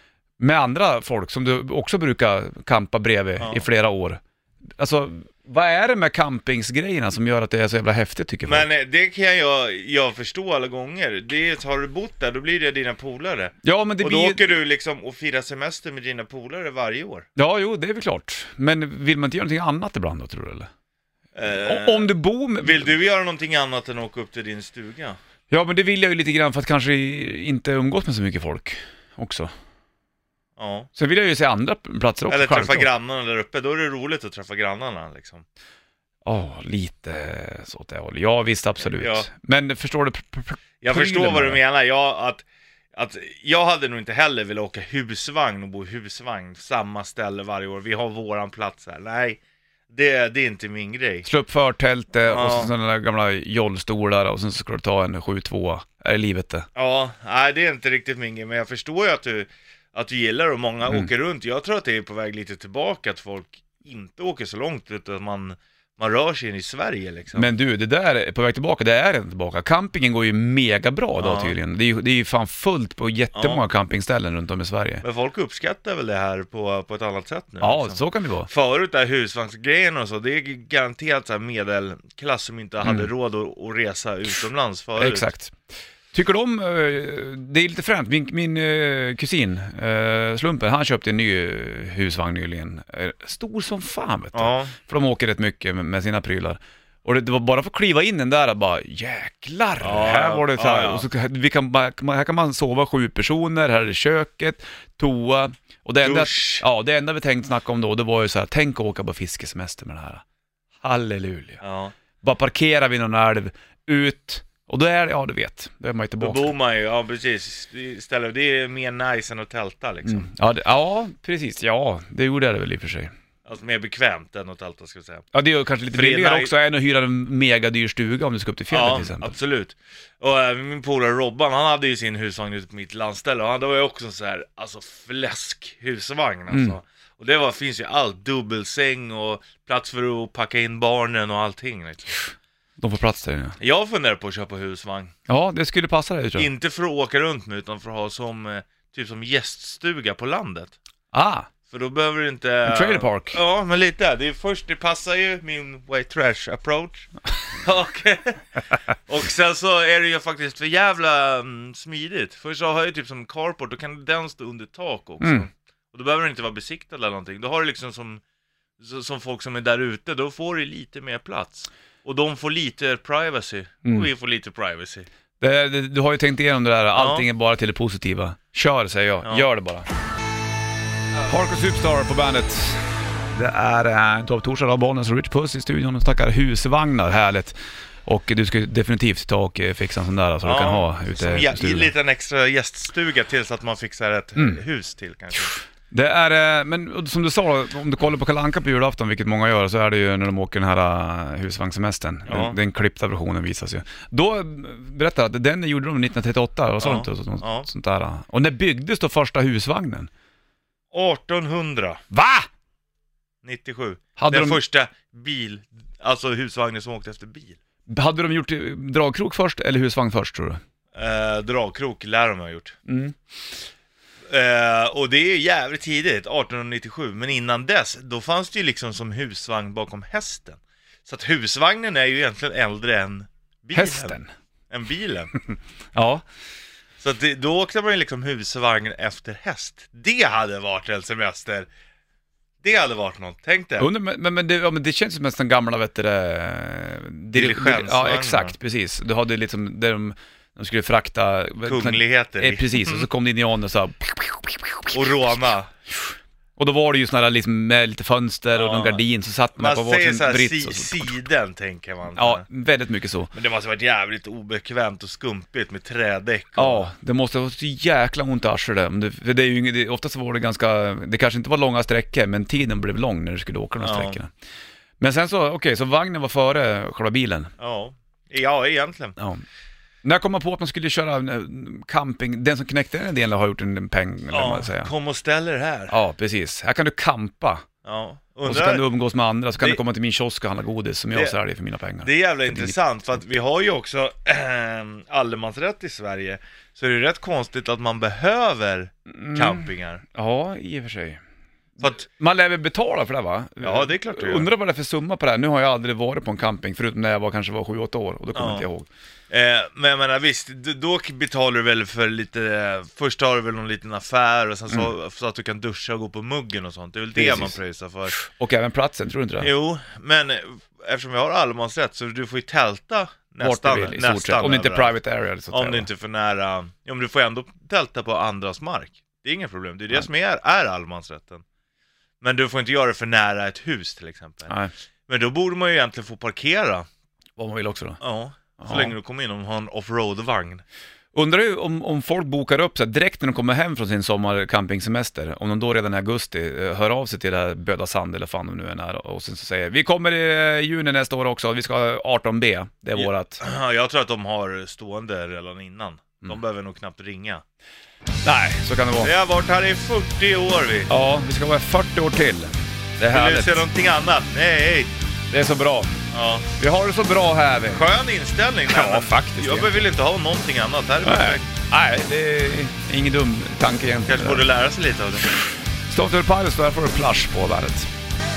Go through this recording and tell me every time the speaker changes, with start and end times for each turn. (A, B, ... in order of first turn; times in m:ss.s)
0:00.4-0:04.2 A
0:04.8-0:08.7 A
0:08.5-0:17.3 B
0:13.6-0:14.5 A
0:17.4-0:20.7 A
0:21.4-0:25.2 B
0:21.6-0:22.9 A
0:25.5-0:29.5 A
0:30.6-0:30.9 B
0:31.0-0:32.9 A
0:32.3-0:35.4 B
0:36.2-0:41.6 A
0:38.9-0:39.3 B
0:40.8-0:49.4 B
0:49.9-0:51.3 B
0:51.2-0:56.7 A
0:52.3-0:52.7 B
0:56.8-1:07.5 B
1:00.8-1:01.1 A
1:07.3-1:15.0 A
1:11.2-1:11.6 B
1:13.4-1:13.6 B
1:15.0-1:25.3 B
1:17.6-1:18.5 A
1:22.8-1:23.1 A
1:25.0-1:25.6 A
1:26.1-1:50.2 A
1:34.3-1:34.7 B
1:39.8-1:41.0 B
1:46.0-1:46.6 B
1:50.8-1:51.6 A
1:51.6-1:51.9 B
1:52.2-1:56.5 A
1:56.2-2:00.3 B
2:00.0-2:03.1 A
2:03.5-2:05.2 B
2:05.3-2:09.3 A
2:05.9-2:06.5 B
2:08.7-2:22.3 B
2:16.5-2:16.8 A
2:22.8-2:23.6 A
2:23.6-2:25.1 B
2:25.3-2:26.5 A
2:26.4-2:30.7 B
2:31.1-2:31.5 A
2:31.7-2:37.1 B
2:32.6-2:33.4 A
2:37.6-2:38.5 B
2:39.1-2:48.2 B
2:45.2-2:45.5 A
2:48.8-2:55.1 B
2:55.4-2:59.9 A
2:56.9-2:57.3 B
3:01.3-3:11.9 A
3:10.4-3:15.5 B
3:15.9-3:30.1 A
3:22.3-3:22.6 B
3:26.8-3:27.7 B
3:30.9-3:32.0 B
3:32.1-3:32.5 A
3:33.4-3:37.6 B
3:34.2-3:34.6 A
3:37.9-3:40.6 A
3:41.0-3:42.8 B
3:42.9-3:43.2 A
3:44.3-3:54.2 B
3:53.7-3:54.3 A
3:54.7-3:55.3 B
3:56.0-3:56.2 A
3:57.0-4:01.7 B
4:02.6-4:03.9 B
4:03.8-4:15.1 A
4:07.3-4:08.6 B
4:11.6-4:13.1 B
4:14.9-4:15.7 B
4:16.6-4:21.2 A
4:18.5-4:19.0 B
4:19.6-4:22.4 B
4:22.2-4:23.3 A
4:23.3-4:26.9 B
4:26.6-4:34.3 A
4:33.8-4:34.2 B
4:35.0-4:37.5 A
4:37.6-4:39.2 B
4:39.2-4:39.4 A
4:40.0-4:44.9 A
4:44.3-4:45.9 B
4:45.9-4:47.6 A
4:47.8-4:48.8 B
4:48.4-4:52.8 A
4:52.0-5:00.0 B
4:59.1-5:01.2 A
5:01.8-5:08.9 A
5:03.6-5:04.5 B
5:08.4-5:08.7 B
5:09.3-5:18.2 B
5:17.2-5:17.6 A
5:18.1-5:19.5 A
5:19.4-5:24.9 B
5:23.4-5:25.9 A
5:25.5-5:31.4 B
5:32.2-5:34.5 B
5:35.1-5:36.9 B
5:37.4-5:38.0 A
5:38.0-5:40.6 B
5:38.6-5:38.9 A
5:41.1-5:53.4 A
5:53.0-5:57.4 B
5:58.2-5:59.1 A
5:59.0-6:00.9 B
6:00.9-6:03.6 A
6:03.1-6:04.9 B
6:05.3-6:06.0 A
6:06.1-6:06.5 B
6:06.6-6:07.9 A
6:07.7-6:11.5 B
6:08.7-6:09.8 A
6:11.0-6:14.4 A
6:14.1-6:15.3 B
6:15.9-6:17.9 A